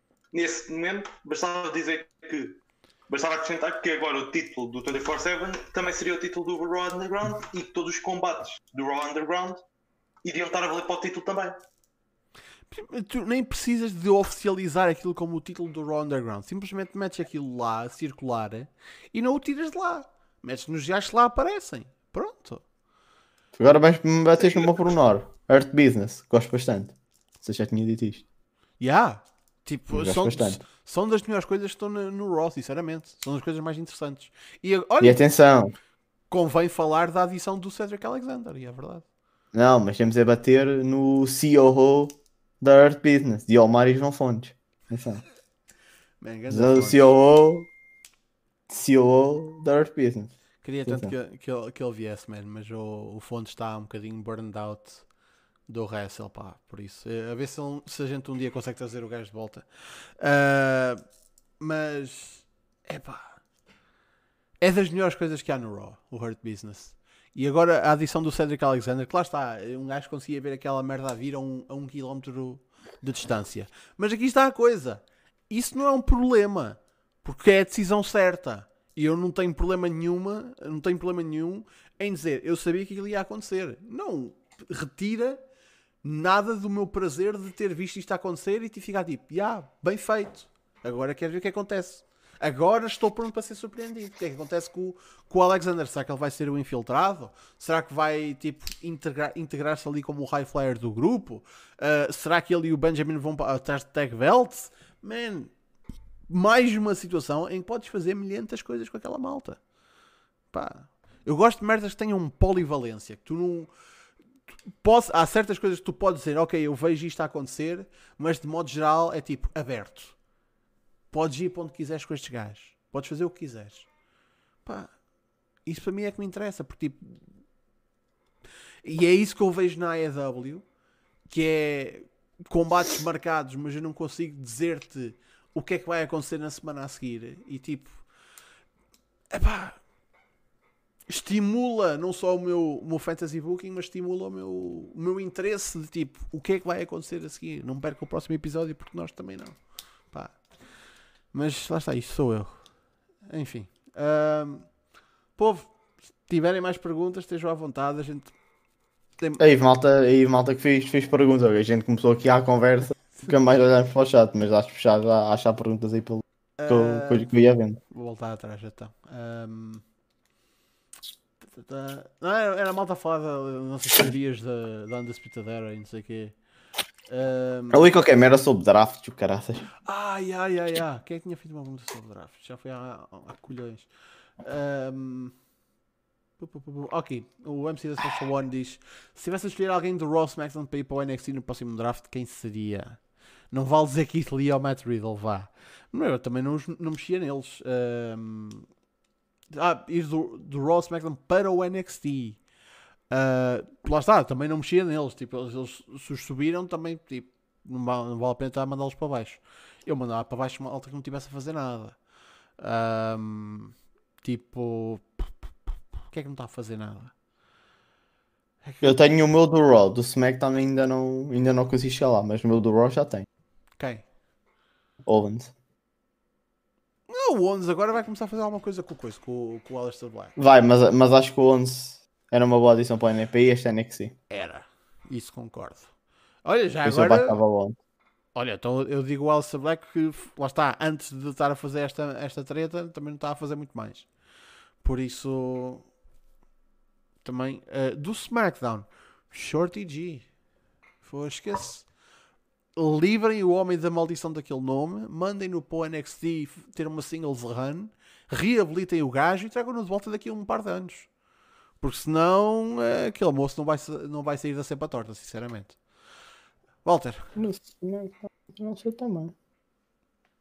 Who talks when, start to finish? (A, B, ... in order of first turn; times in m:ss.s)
0:00.3-0:09.6 A
0:10.2-0:11.6 A
0:12.7-0:22.6 B
0:23.6-0:28.2 C
0:28.8-0:35.2 B
0:29.9-0:30.6 C
0:35.0-0:35.7 C
0:36.3-0:39.0 B
0:39.5-0:45.2 C
0:46.2-0:47.1 B
0:46.5-0:47.7 C
0:48.7-0:50.3 C
0:50.6-0:55.0 B
0:50.8-0:51.1 C
0:55.7-0:59.7 B
1:00.2-1:01.0 B
1:01.6-1:03.4 B
1:04.6-1:25.4 B
1:26.0-1:45.5 B
1:46.3-1:49.6 B
1:50.5-1:53.7 B
1:54.8-2:00.2 B
2:01.1-2:03.9 B
2:04.6-2:04.9 B
2:05.6-2:07.2 B
2:08.8-2:10.6 B
2:11.3-2:18.0 B
2:19.3-2:19.8 B
2:21.1-2:29.6 B
2:30.1-2:30.4 B
2:31.3-2:32.6 B
2:33.2-2:34.7 B
2:35.4-2:38.3 B
2:39.4-2:47.8 C
2:46.6-2:47.3 B
2:47.9-2:49.8 B
2:51.4-2:56.3 B
2:57.1-2:57.9 B
2:57.7-2:59.7 C
2:59.8-3:03.9 B
3:04.4-3:05.4 B
3:06.4-3:18.7 B
3:19.5-3:22.4 B
3:23.1-3:32.0 B
3:32.6-3:35.5 B
3:36.1-3:37.1 B
3:38.6-3:39.0 B
3:38.8-3:43.2 C
3:43.8-3:44.0 B
3:45.0-3:45.5 C
3:47.1-3:50.4 B
3:50.4-3:54.1 C
3:54.3-3:55.9 B
3:56.4-3:57.4 B
3:56.8-3:57.8 C
3:58.3-4:04.1 B
4:04.8-4:05.9 B
4:07.2-4:10.3 B
4:11.0-4:11.9 B
4:12.8-4:21.1 B
4:21.8-4:25.8 B
4:26.8-4:27.3 B
4:27.4-4:29.3 C